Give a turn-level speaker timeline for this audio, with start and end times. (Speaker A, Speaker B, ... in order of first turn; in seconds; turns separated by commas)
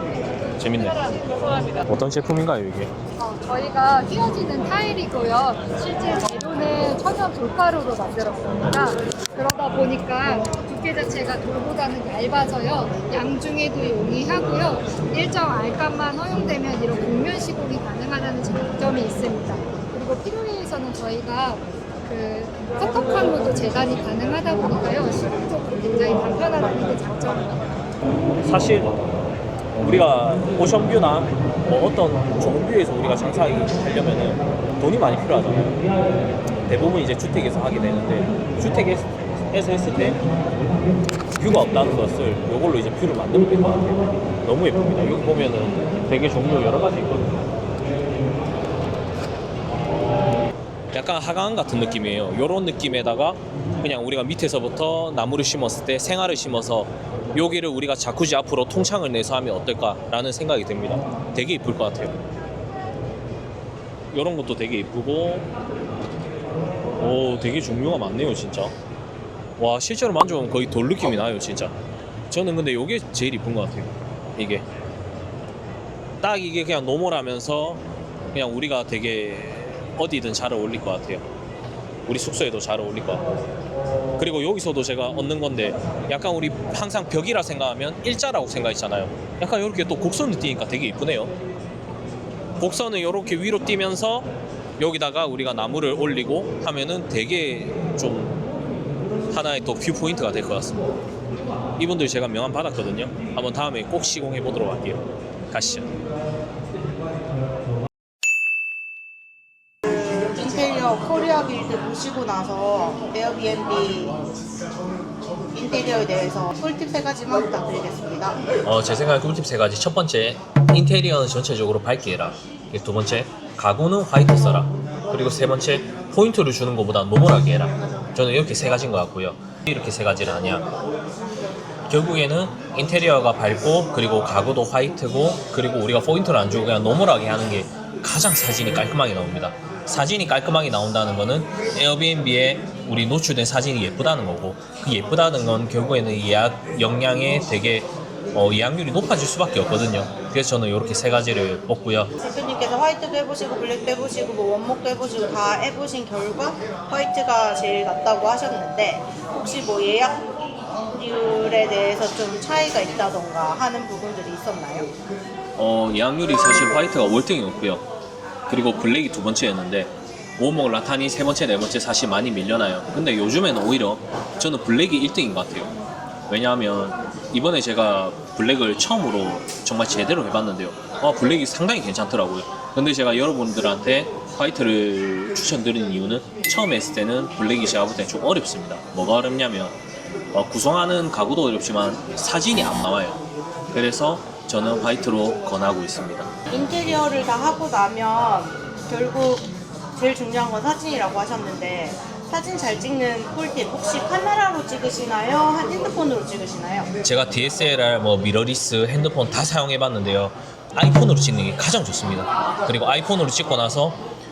Speaker A: 0.5-2.9, Speaker B: 1.1-1.6, Speaker B: 3.2-27.7, Speaker A: 28.4-28.9, Speaker A: 29.8-35.7, Speaker A: 36.6-40.2, Speaker A: 41.3-47.4, Speaker A: 50.9-62.1, Speaker A: 64.1-65.5, Speaker A: 67.0-68.7, Speaker A: 69.6-71.7, Speaker A: 72.3-74.6, Speaker A: 76.2-81.2, Speaker A: 82.0-83.2, Speaker A: 84.2-91.3, Speaker A: 92.6-94.3, Speaker A: 94.8-98.4, Speaker A: 99.3-100.9, Speaker A: 101.8-105.9, Speaker C: 109.8-114.2, Speaker C: 115.5-118.4, Speaker A: 118.6-130.7, Speaker A: 131.9-152.1, Speaker C: 152.2-160.2, Speaker C: 160.9-164.9, Speaker A: 165.6-167.9, Speaker A: 168.5-175.7, Speaker A: 176.3-189.8, Speaker A: 190.3-193.2, Speaker A: 193.7-196.3, Speaker C: 196.5-206.9, Speaker A: 207.0-214.0